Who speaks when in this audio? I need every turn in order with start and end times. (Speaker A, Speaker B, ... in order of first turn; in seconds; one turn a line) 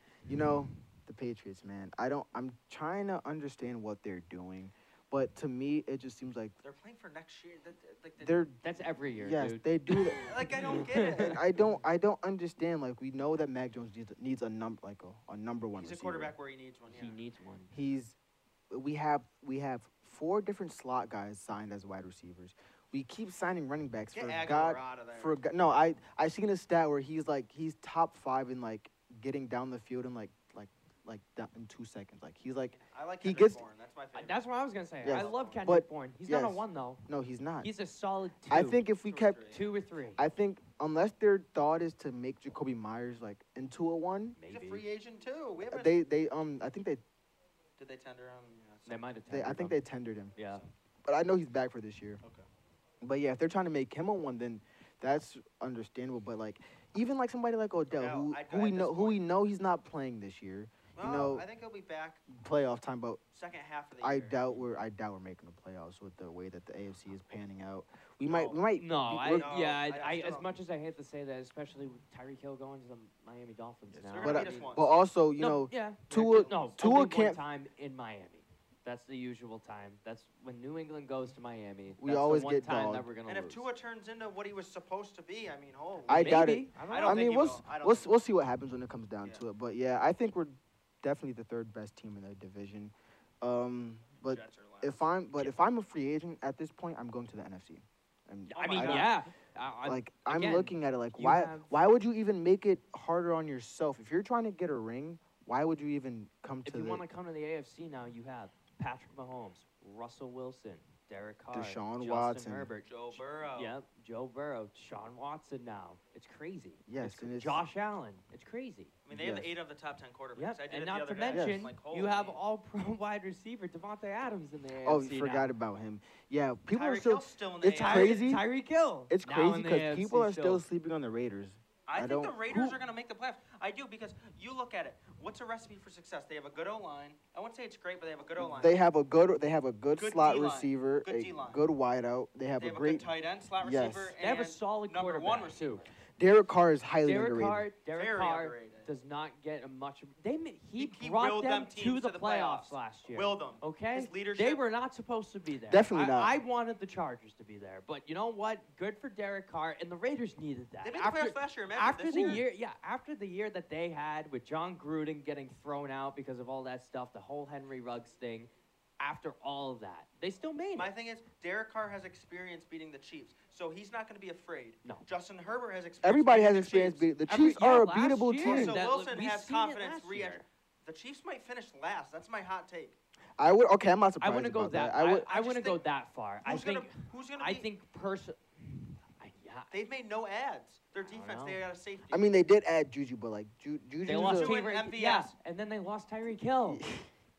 Speaker A: 0.3-6.6
Speaker B: 6.6-8.5
Speaker A: 8.2-8.6
Speaker C: 8.6-11.3
Speaker A: 9.2-16.3
Speaker B: 10.2-11.5
Speaker B: 15.8-17.2
Speaker C: 16.9-17.8
Speaker A: 17.7-18.2
Speaker A: 18.7-33.6
Speaker B: 24.1-25.4
Speaker B: 32.7-34.4
Speaker C: 34.1-37.1
Speaker A: 35.0-37.7
Speaker B: 35.0-35.6
Speaker C: 37.6-38.8
Speaker A: 38.5-39.5
Speaker B: 39.0-39.7
Speaker C: 39.5-40.2
Speaker A: 40.2-44.4
Speaker C: 44.4-44.8
Speaker B: 44.5-46.0
Speaker A: 45.7-47.0
Speaker B: 47.8-49.0
Speaker C: 48.9-49.8
Speaker A: 49.3-50.4
Speaker C: 50.4-50.6
Speaker A: 51.1-52.2
Speaker A: 53.0-61.5
Speaker B: 57.9-59.2
Speaker B: 61.0-62.2
Speaker A: 62.3-63.2
Speaker B: 63.3-64.4
Speaker A: 64.0-69.5
Speaker B: 68.3-68.6
Speaker C: 68.8-74.8
Speaker B: 69.2-70.5
Speaker A: 73.9-77.4
Speaker B: 74.1-74.9
Speaker C: 75.4-83.7
Speaker B: 76.1-76.8
Speaker A: 82.0-83.1
Speaker B: 83.3-88.1
Speaker A: 86.1-99.2
Speaker C: 86.1-87.3
Speaker B: 94.2-95.0
Speaker C: 98.5-101.7
Speaker B: 98.5-99.2
Speaker A: 99.8-107.0
Speaker C: 106.7-118.9
Speaker A: 111.5-112.7
Speaker B: 112.8-113.8
Speaker A: 116.9-117.6
Speaker B: 119.0-122.4
Speaker A: 119.1-119.5
Speaker C: 120.4-125.5
Speaker A: 121.3-121.7
Speaker A: 124.8-128.4
Speaker B: 126.7-128.4
Speaker C: 127.8-130.6
Speaker A: 129.1-132.4
Speaker B: 131.9-138.8
Speaker C: 132.5-132.8
Speaker A: 138.4-143.1
Speaker B: 140.0-141.6
Speaker B: 142.6-145.9
Speaker A: 143.6-144.2
Speaker C: 144.2-145.9
Speaker A: 146.2-147.7
Speaker C: 147.0-168.5
Speaker B: 147.9-148.9
Speaker B: 150.8-154.6
Speaker A: 155.7-156.4
Speaker B: 160.8-162.4
Speaker C: 169.0-170.9
Speaker B: 170.8-177.1
Speaker A: 176.0-178.8
Speaker C: 177.3-180.4
Speaker B: 178.4-183.0
Speaker A: 183.4-185.3
Speaker C: 184.2-189.8
Speaker B: 185.3-185.8
Speaker B: 186.4-187.7
Speaker B: 189.7-192.3
Speaker C: 191.1-191.6
Speaker A: 192.1-194.6
Speaker C: 194.1-196.9
Speaker B: 194.1-195.3
Speaker A: 196.7-197.1